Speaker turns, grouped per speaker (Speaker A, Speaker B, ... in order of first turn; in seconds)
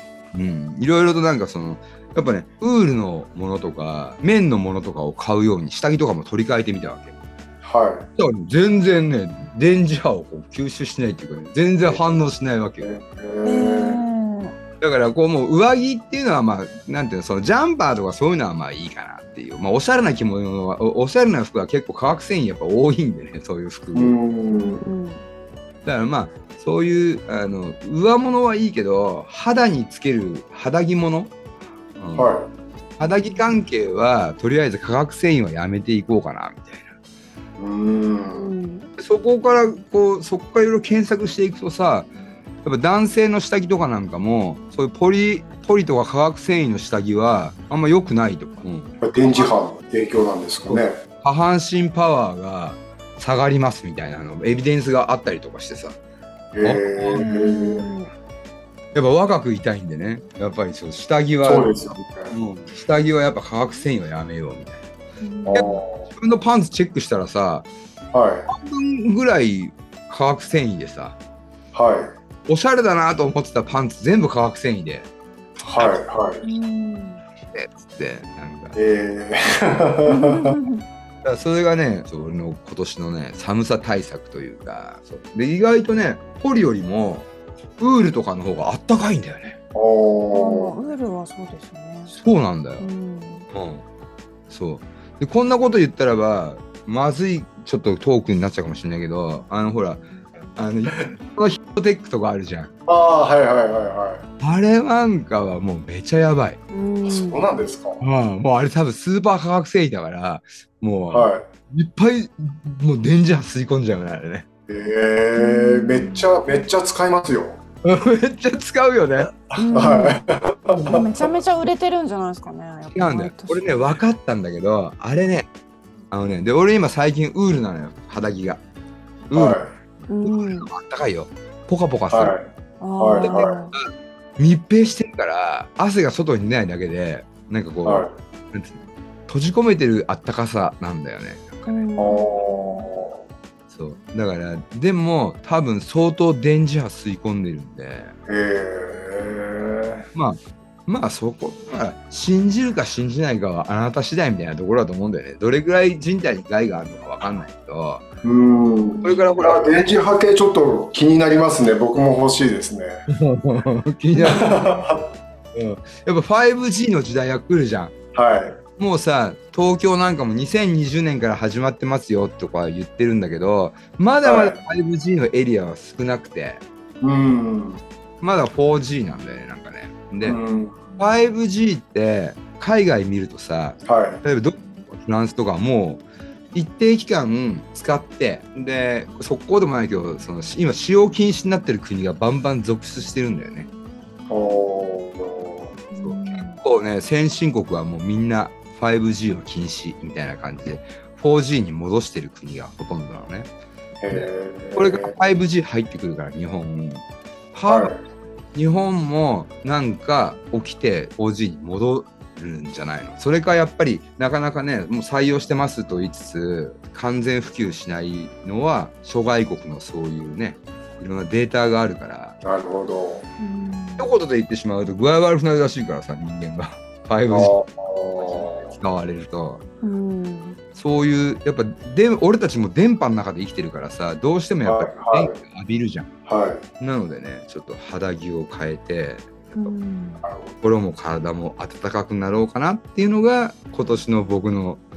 Speaker A: 0.3-7.1, 8.2-12.9, 14.8-24.1, 25.8-31.3, 32.0-32.3, 33.0-36.9, 39.0-42.1, 42.6-49.0, 50.7-56.0, 56.6-57.3, 58.9-61.7, 62.3-64.8, 65.5-67.7, 68.5-71.2, 72.5-75.1, 77.5-78.8, 81.2-89.5, 92.1-92.8, 93.5-93.8, 94.5-100.0, 100.5-102.7, 104.4-106.6, 108.0-114.5, 117.8-119.3, 122.9-125.5, 126.1-128.6, 129.3-129.6, 130.2-132.3, 133.2-141.8, 143.7-148.1, 150.1-158.1, 159.0-159.9, 163.1-164.7, 165.5-167.9, 168.8-176.6, 178.2-180.4, 181.0-193.7, 196.0-203.5, 204.1-207.9, 208.5-222.4, 224.0-227.5, 228.3-229.6, 230.8-236.1, 236.8-239.7, 240.6-244.8
Speaker B: 7.6-8.1, 11.8-12.1, 12.8-14.0, 23.9-24.8, 32.1-32.5, 37.6-38.5, 49.0-51.0, 56.5-57.9, 61.4-62.3, 65.5-66.0, 68.1-68.5, 71.7-72.1, 75.6-76.4, 78.8-80.5, 89.7-90.7, 102.9-104.2, 107.0-108.0, 111.1-111.5, 114.7-117.6, 119.4-121.1, 129.3-129.7, 132.1-132.4, 133.0-133.5, 137.8-138.1, 142.0-143.2, 148.3-150.1, 158.2-163.0, 164.2-165.1, 168.1-168.6, 174.2-174.6, 177.0-177.8, 180.2-181.0, 183.8-184.2, 194.3-195.7, 204.0-205.1, 207.7-208.0, 222.4-223.2, 227.3-228.7, 234.6-235.3, 236.3-236.6, 240.2-240.5
Speaker C: 13.4-14.6, 24.5-25.2, 33.0-33.6, 38.3-38.9, 57.2-58.1, 65.2-65.8, 76.4-77.2, 80.1-80.8, 90.3-92.1, 92.8-93.5, 106.7-107.5, 115.3-116.4, 119.5-120.2, 120.7-123.8, 130.1-130.7, 132.8-133.7, 141.7-142.9, 158.9-159.4, 195.9-196.6, 223.4-224.1, 229.8-230.6, 239.6-240.2